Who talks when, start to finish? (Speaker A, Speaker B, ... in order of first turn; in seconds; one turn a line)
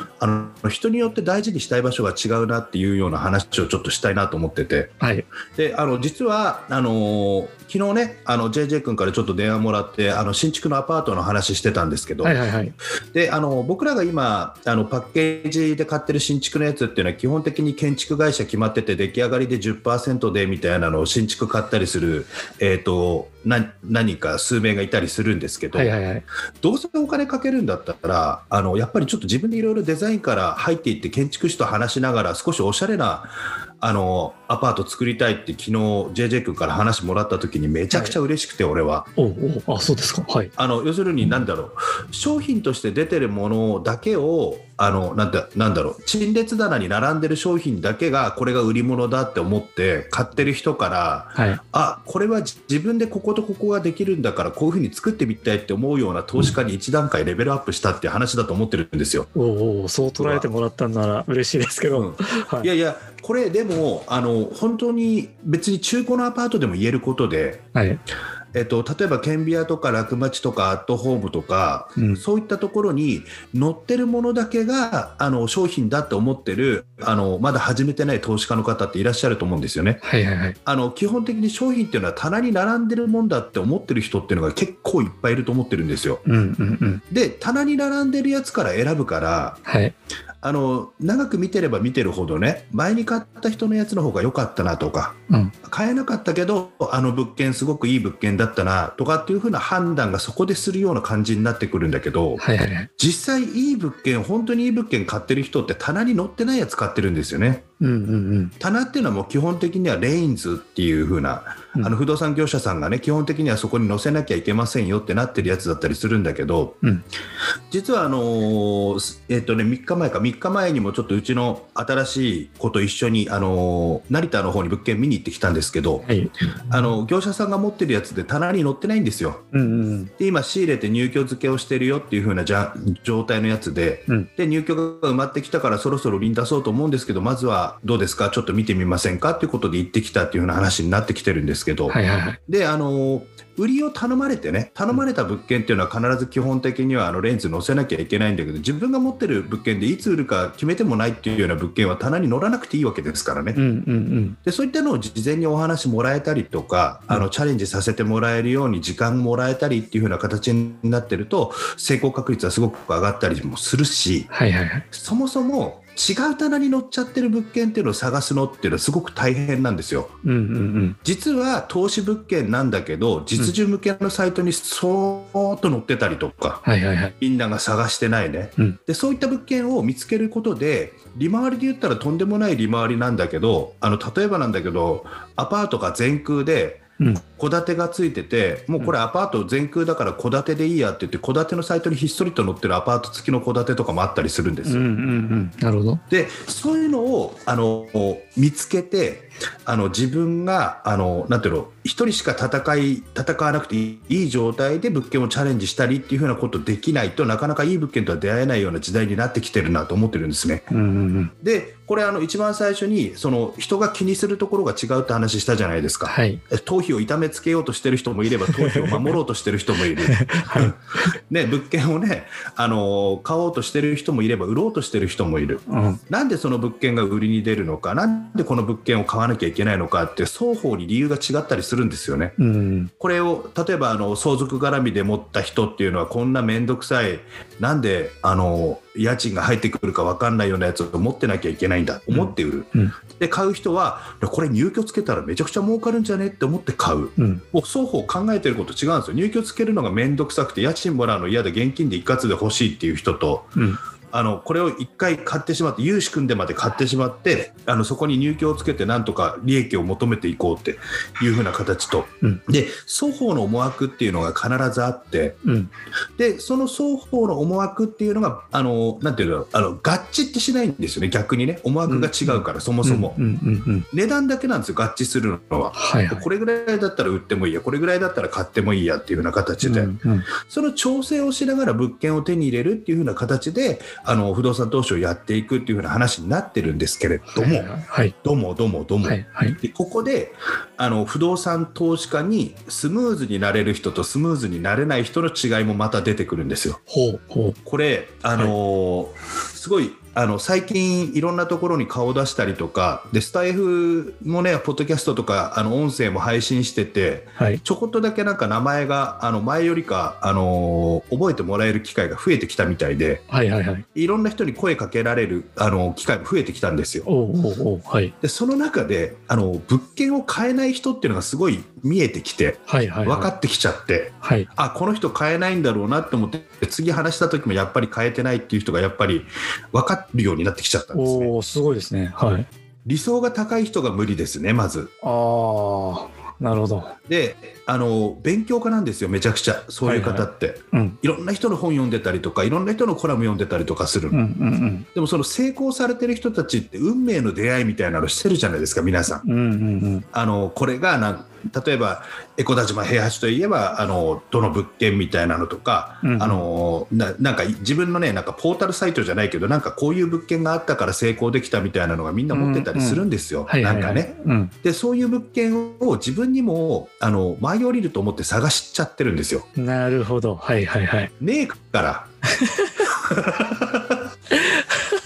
Speaker A: 0.2-5.0
Speaker B: 5.0-5.3
Speaker A: 5.5-12.4
Speaker B: 12.2-12.8
Speaker A: 13.1-25.9
Speaker B: 25.7-26.2
Speaker A: 26.6-39.1
Speaker B: 39.2-40.5
Speaker A: 40.6-59.3
Speaker B: 59.4-62.7
Speaker A: 60.2-60.5
Speaker A: 61.9-67.6
Speaker B: 67.7-68.0
Speaker A: 68.5-80.0
Speaker B: 72.0-72.2
Speaker B: 80.0-80.6
Speaker A: 80.7-86.2
Speaker B: 86.2-87.0
Speaker A: 87.1-89.6
Speaker B: 89.7-89.9
Speaker A: 90.4-102.4
Speaker B: 102.4-102.9
Speaker A: 103.0-107.7
Speaker B: 107.8-108.5
Speaker A: 108.6-116.8
Speaker A: 117.7-126.1
Speaker B: 126.0-126.3
Speaker A: 126.7-129.4
Speaker B: 129.5-130.1
Speaker A: 130.2-153.6
Speaker B: 141.9-142.4
Speaker B: 153.5-154.4
Speaker A: 154.4-164.3
Speaker B: 164.3-164.9
Speaker A: 164.9-170.1
Speaker B: 170.2-171.0
Speaker A: 171.0-176.6
Speaker B: 176.6-177.1
Speaker A: 177.2-186.8
Speaker A: 187.3-194.9
Speaker B: 194.7-196.0
Speaker A: 196.1-210.7
Speaker B: 210.7-211.3
Speaker A: 211.4-220.8
Speaker B: 216.1-216.4
Speaker B: 218.5-219.2
Speaker B: 220.0-220.8
Speaker A: 221.3-232.4
Speaker B: 225.7-226.0
Speaker B: 232.4-232.9
Speaker A: 233.0-253.6
Speaker B: 242.1-242.9
Speaker B: 247.2-247.4
Speaker A: 254.1-265.4
Speaker B: 265.4-265.7
Speaker A: 266.2-273.2
Speaker B: 271.9-273.9
Speaker A: 273.9-279.9
Speaker B: 275.8-276.3
Speaker B: 279.6-280.3
Speaker A: 280.4-287.7
Speaker B: 287.3-288.1
Speaker A: 288.2-296.8
Speaker B: 289.0-289.6
Speaker B: 296.9-297.6
Speaker A: 297.6-313.2
Speaker B: 313.3-313.9
Speaker A: 313.9-317.1
Speaker B: 317.1-318.1
Speaker A: 318.2-331.3
Speaker B: 322.7-323.3
Speaker B: 324.2-324.5
Speaker B: 330.9-332.5
Speaker A: 332.9-334.9
Speaker B: 335.0-336.9
Speaker A: 337.1-344.2
Speaker B: 339.9-341.0
Speaker B: 344.1-344.9
Speaker A: 344.9-349.2
Speaker B: 349.2-350.1
Speaker A: 350.1-369.5
Speaker B: 356.0-356.5
Speaker B: 362.3-364.5
Speaker B: 369.6-371.1
Speaker A: 371.2-372.1
Speaker B: 372.4-372.9
Speaker A: 372.9-374.0